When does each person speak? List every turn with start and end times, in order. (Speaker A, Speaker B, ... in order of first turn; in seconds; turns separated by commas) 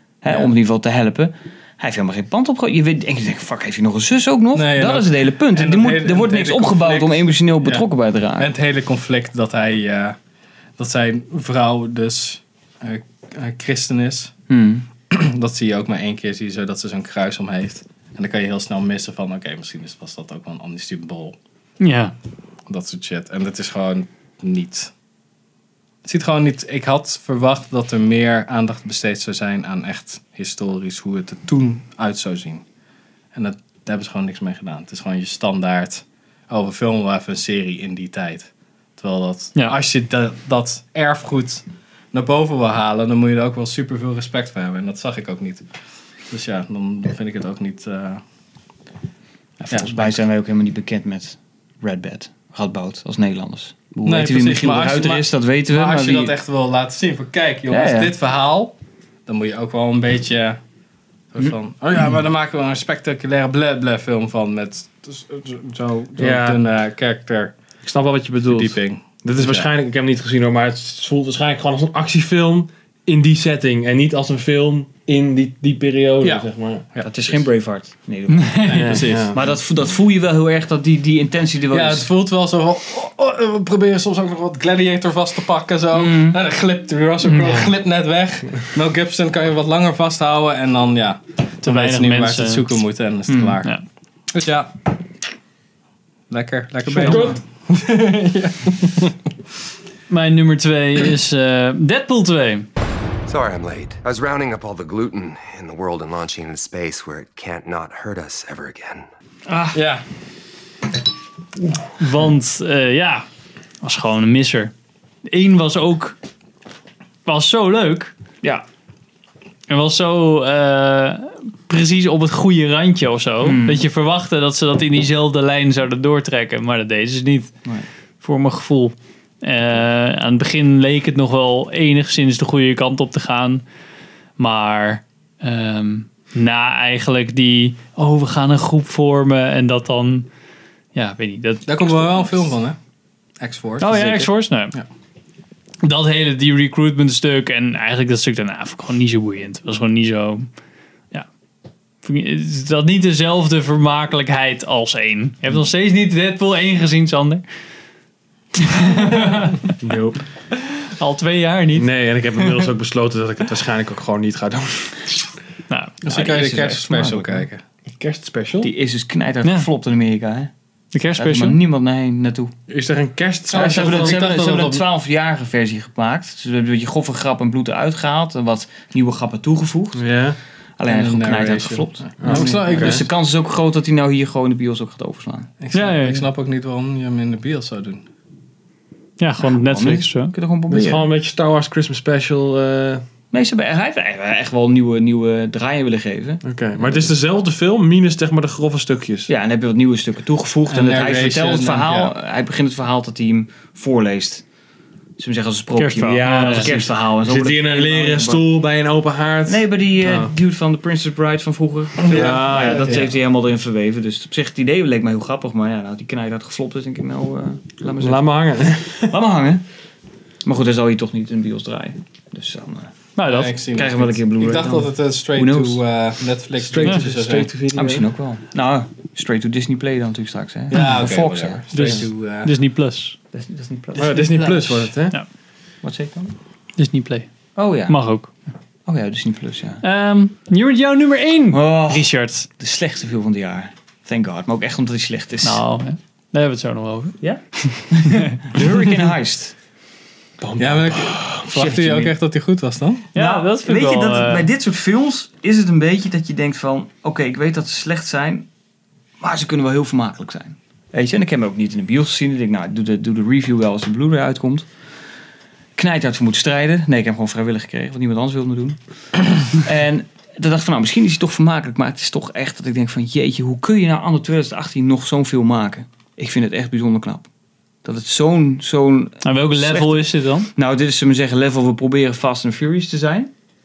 Speaker A: 0.2-8.5, Speaker B: 4.5-7.8, Speaker B: 8.4-10.2, Speaker B: 10.8-14.3, Speaker A: 14.5-14.8, Speaker B: 15.1-21.4, Speaker C: 21.8-22.1, Speaker B: 22.7-24.9, Speaker B: 26.0-32.6, Speaker B: 33.3-45.6, Speaker B: 46.3-48.2, Speaker A: 49.6-56.4, Speaker B: 49.7-50.2, Speaker B: 54.0-58.8, Speaker A: 57.7-58.1, Speaker B: 59.3-60.6, Speaker B: 61.3-67.5, Speaker D: 66.2-66.6, Speaker D: 67.8-76.8, Speaker B: 68.5-69.7, Speaker B: 76.2-77.4, Speaker A: 77.0-82.1, Speaker C: 78.4-79.0, Speaker B: 78.7-79.5, Speaker D: 78.7-79.4, Speaker B: 81.7-93.7, Speaker A: 85.9-86.4, Speaker C: 87.2-87.7, Speaker C: 91.6-92.8, Speaker A: 93.3-93.6, Speaker B: 94.3-94.9, Speaker B: 96.3-99.2, Speaker D: 97.0-97.4, Speaker C: 100.1-102.7, Speaker E: 103.3-109.1, Speaker A: 109.5-109.8, Speaker B: 109.7-110.0, Speaker C: 112.0-113.3, Speaker C: 113.8-114.7, Speaker C: 115.3-116.2, Speaker C: 117.3-118.1, Speaker C: 119.7-127.5, Speaker A: 123.4-123.8, Speaker C: 128.2-133.6, Speaker C: 134.4-140.3, Speaker C: 140.9-142.2, Speaker B: 141.7-142.8, Speaker B: 143.4-144.8, Speaker C: 143.8-144.8, Speaker C: 145.8-150.5, Speaker C: 152.0-157.4, Speaker C: 158.6-159.6, Speaker D: 159.8-160.2, Speaker C: 160.8-161.9, Speaker D: 161.8-165.0, Speaker B: 166.0-167.6, Speaker A: 166.1-167.5, Speaker D: 167.9-168.7, Speaker A: 168.6-170.5, Speaker C: 170.9-171.6, Speaker A: 171.2-172.5, Speaker D: 172.7-174.3, Speaker B: 173.5-174.8, Speaker A: 173.5-180.1, Speaker D: 179.9-180.4, Speaker A: 180.8-185.5, Speaker B: 180.9-183.1, Speaker D: 182.2-183.1, Speaker B: 185.6-188.0, Speaker C: 185.7-186.2, Speaker C: 189.2-190.3, Speaker A: 189.4-191.1, Speaker D: 190.7-193.0, Speaker A: 193.3-196.4, Speaker D: 196.4-199.3, Speaker A: 199.3-204.4, Speaker B: 200.7-202.1, Speaker A: 205.2-208.5, Speaker C: 205.8-206.7, Speaker D: 206.0-210.3, Speaker A: 209.5-219.6, Speaker B: 212.0-213.1, Speaker D: 212.1-213.1, Speaker D: 218.0-219.2, Speaker A: 220.4-222.9, Speaker C: 223.2-223.5, Speaker B: 223.2-227.5, Speaker A: 223.7-225.8, Speaker D: 226.6-228.1, Speaker A: 227.7-231.6, Speaker B: 230.7-232.5, Speaker C: 231.7-233.2, Speaker A: 233.3-234.8, Speaker D: 233.9-235.2, Speaker A: 235.8-236.3, Speaker C: 236.8-237.3, Speaker A: 237.6-238.2, Speaker C: 237.9-238.3, Speaker A: 238.9-239.8, Speaker C: 239.8-242.5, Speaker A: 241.5-245.6, Speaker C: 245.4-248.3, Speaker A: 247.2-249.5, Speaker D: 250.4-251.4, Speaker B: 250.6-253.1, Speaker A: 251.5-252.2, Speaker C: 253.1-254.4, Speaker A: 253.2-258.5, Speaker A: 259.2-264.7, Speaker A: 265.8-268.8, Speaker A: 269.3-277.3, Speaker A: 277.8-283.3, Speaker C: 279.2-280.5